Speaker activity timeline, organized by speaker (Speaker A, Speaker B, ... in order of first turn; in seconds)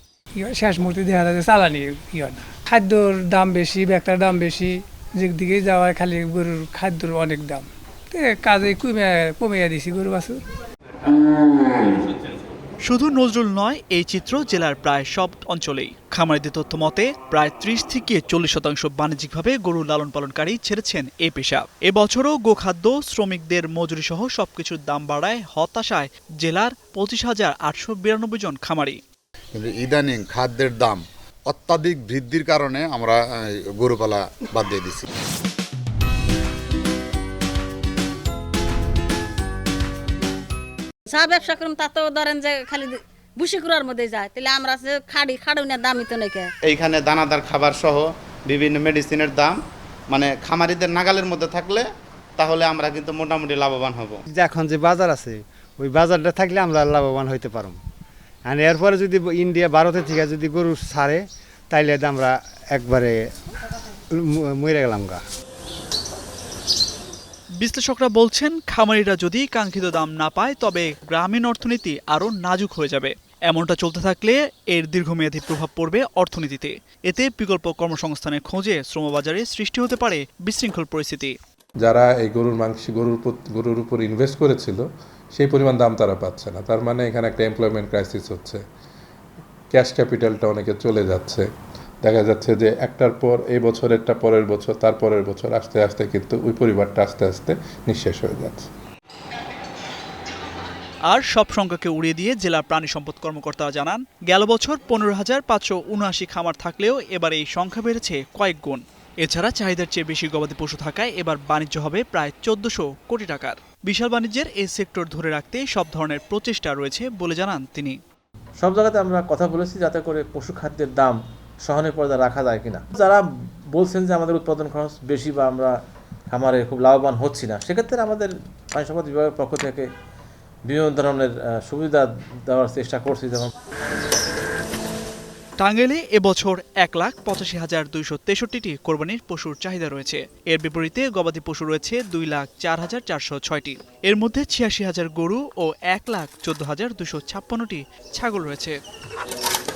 Speaker A: 0.4-10.4
Speaker B: 12.8-29.0, 67.6-81.3, 101.1-118.0, 135.6-148.8
Speaker C: 29.6-35.1
Speaker D: 41.1-46.5
Speaker E: 46.7-49.6, 50.1-51.9, 52.4-54.2
Speaker F: 54.3-57.8, 58.5-63.1, 64.1-65.2
Speaker G: 81.8-88.6, 89.7-91.5, 92.0-98.7
Speaker H: 118.6-125.8, 126.3-129.9, 130.7-133.5